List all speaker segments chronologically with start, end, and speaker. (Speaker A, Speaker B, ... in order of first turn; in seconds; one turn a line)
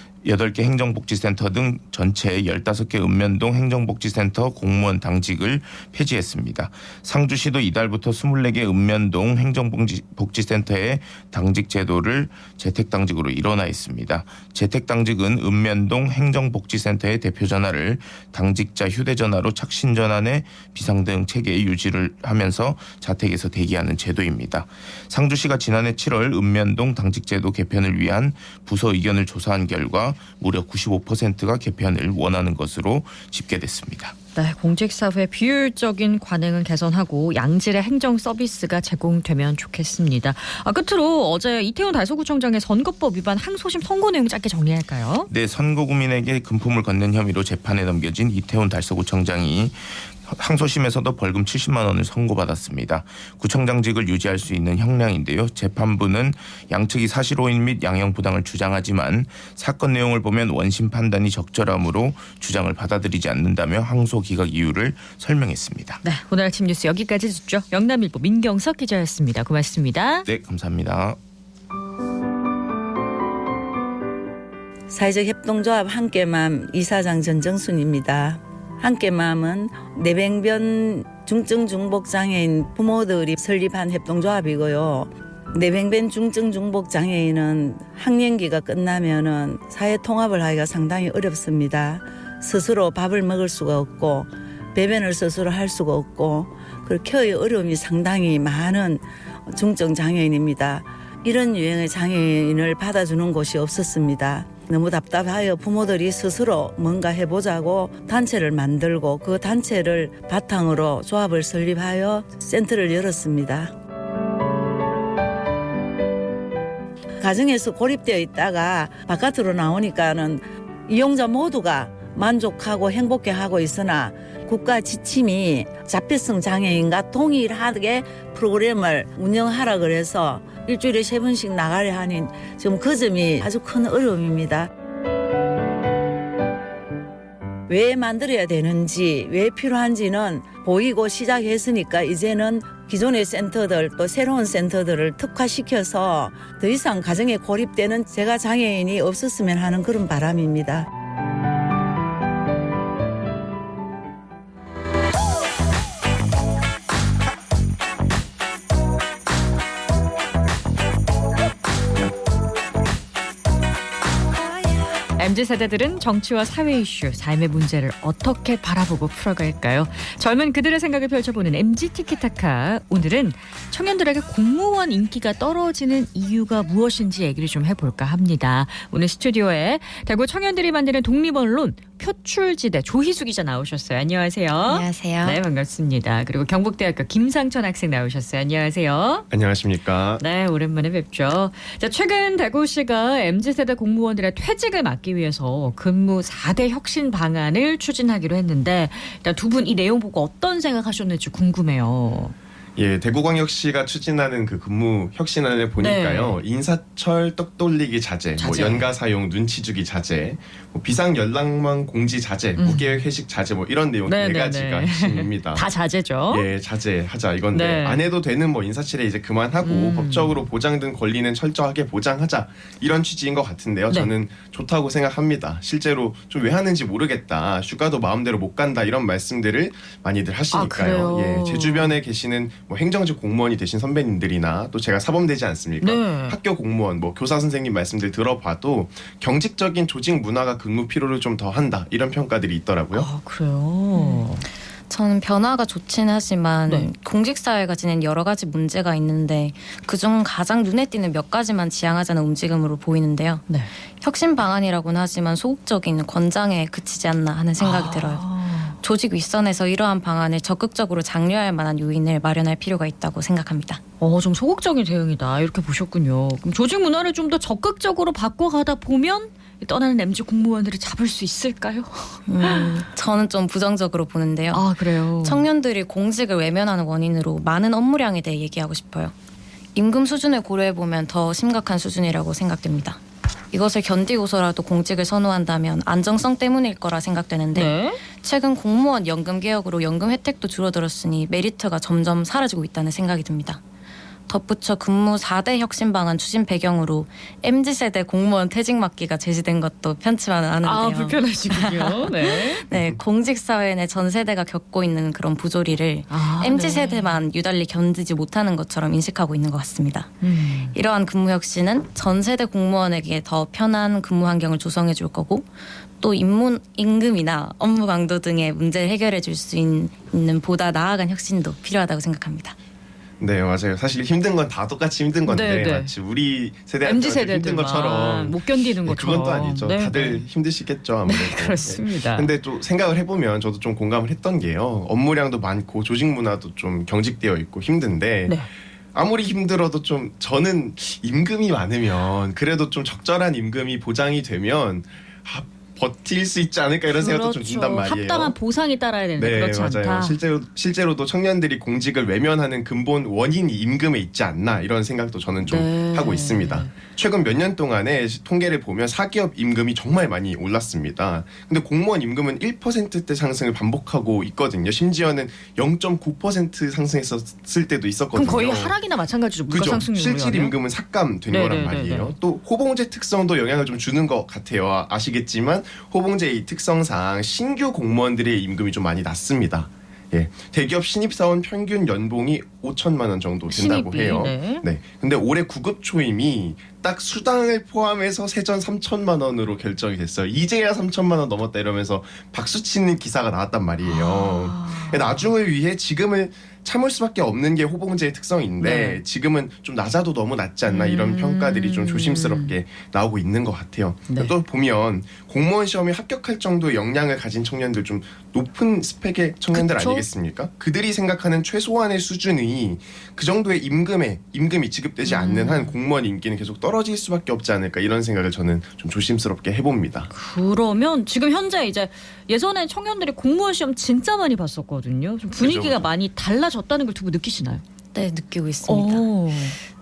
Speaker A: 0.2-34.1
Speaker B: 34.3-45.3
Speaker A: 45.3-66.0
Speaker B: 66.0-70.2
Speaker A: 70.2-71.2
Speaker C: 74.9-113.7
Speaker C: 117.2-134.7
Speaker C: 137.7-150.9
Speaker B: 165.2-189.2
Speaker D: 184.8-185.3
Speaker E: 189.3-190.2
Speaker B: 190.2-202.3
Speaker E: 202.8-215.6
Speaker B: 205.8-206.4
Speaker B: 208.4-208.9
Speaker B: 212.6-213.0
Speaker B: 214.1-216.5
Speaker E: 216.3-243.1
Speaker B: 217.5-218.0
Speaker B: 219.6-220.4
Speaker B: 230.5-232.0
Speaker B: 235.8-236.4
Speaker B: 242.9-244.4
Speaker D: 243.9-244.2
Speaker D: 244.9-253.5
Speaker D: 254.0-258.2
Speaker B: 257.6-258.8
Speaker D: 258.8-263.8
Speaker B: 264.0-272.8
Speaker D: 272.3-274.7
Speaker B: 274.5-275.4
Speaker D: 275.2-279.1
Speaker D: 279.7-283.0
Speaker D: 283.5-293.6
Speaker B: 287.5-288.0
Speaker D: 294.3-310.1
Speaker B: 300.6-302.6
Speaker B: 306.1-307.1
Speaker B: 310.2-310.7
Speaker D: 310.7-315.5
Speaker D: 316.0-322.5
Speaker E: 323.2-338.4
Speaker B: 325.2-325.9
Speaker B: 326.8-330.2
Speaker B: 331.0-332.3
Speaker E: 338.9-348.3
Speaker B: 346.9-350.2
Speaker E: 349.2-368.7
Speaker B: 355.4-356.7
Speaker B: 368.1-370.5
Speaker E: 369.5-420.1
Speaker B: 371.3-372.1
Speaker B: 383.5-384.6
Speaker B: 393.8-395.3
Speaker B: 398.6-399.0
Speaker B: 400.6-402.5
Speaker B: 404.1-404.3
Speaker B: 409.5-410.1
Speaker B: 415.0-415.8
Speaker B: 420.1-427.6
Speaker E: 425.4-425.9
Speaker D: 427.9-429.1
Speaker B: 428.6-429.6